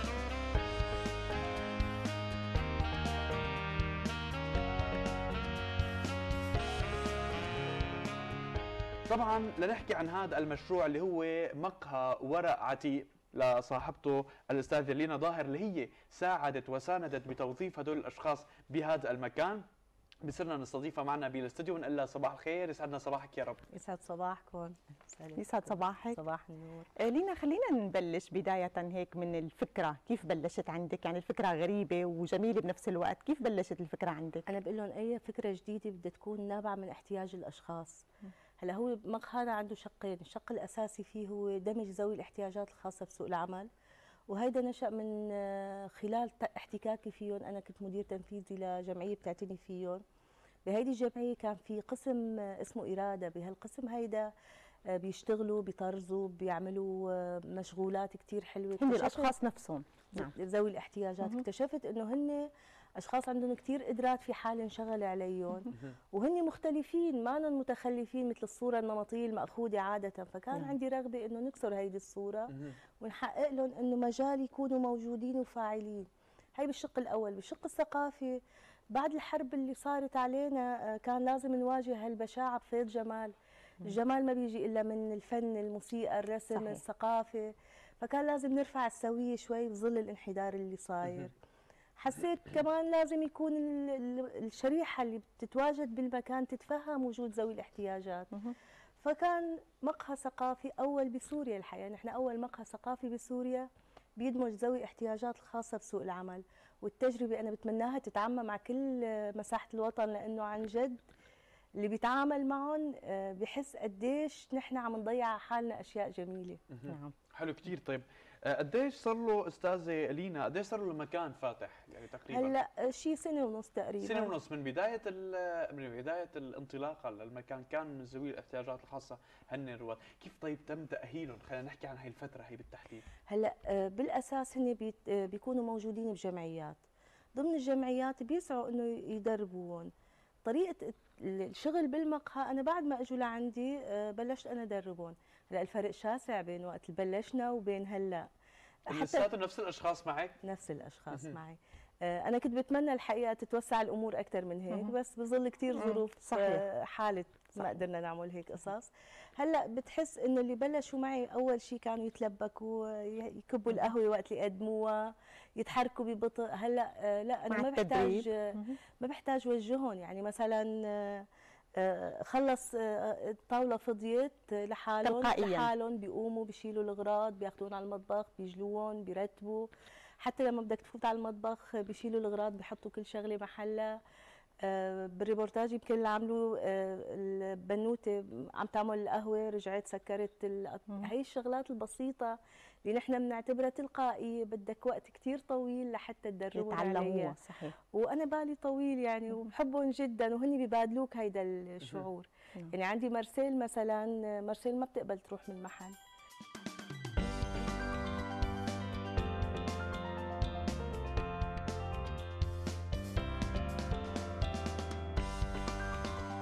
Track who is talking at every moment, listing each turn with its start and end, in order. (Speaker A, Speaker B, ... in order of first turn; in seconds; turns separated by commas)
Speaker A: 9.1-19.7, Speaker A: 20.2-23.7, Speaker B: 23.7-26.9, Speaker C: 25.4-26.2, Speaker C: 27.0-34.4, Speaker B: 34.5-38.1, Speaker B: 38.6-43.7, Speaker B: 44.3-50.0, Speaker B: 50.7-54.3, Speaker B: 54.9-59.4, Speaker C: 58.8-60.3, Speaker B: 60.1-62.5, Speaker C: 61.2-61.5, Speaker B: 63.0-78.4, Speaker B: 78.9-87.5, Speaker C: 86.5-86.8, Speaker B: 88.0-91.3, Speaker B: 92.0-98.5, Speaker B: 99.0-103.7, Speaker B: 104.2-111.0, Speaker B: 111.8-117.1, Speaker A: 116.7-122.6, Speaker B: 122.3-124.3, Speaker A: 124.0-133.1, Speaker B: 133.3-136.8, Speaker B: 137.3-139.9, Speaker B: 140.4-148.3, Speaker A: 148.9-150.4, Speaker B: 148.9-149.3, Speaker B: 150.4-171.2, Speaker A: 151.1-151.4, Speaker C: 155.7-156.6, Speaker C: 167.5-168.8, Speaker B: 171.8-179.7, Speaker C: 175.0-175.7, Speaker B: 180.2-183.9, Speaker B: 184.7-192.3, Speaker B: 192.9-206.0, Speaker C: 196.5-197.7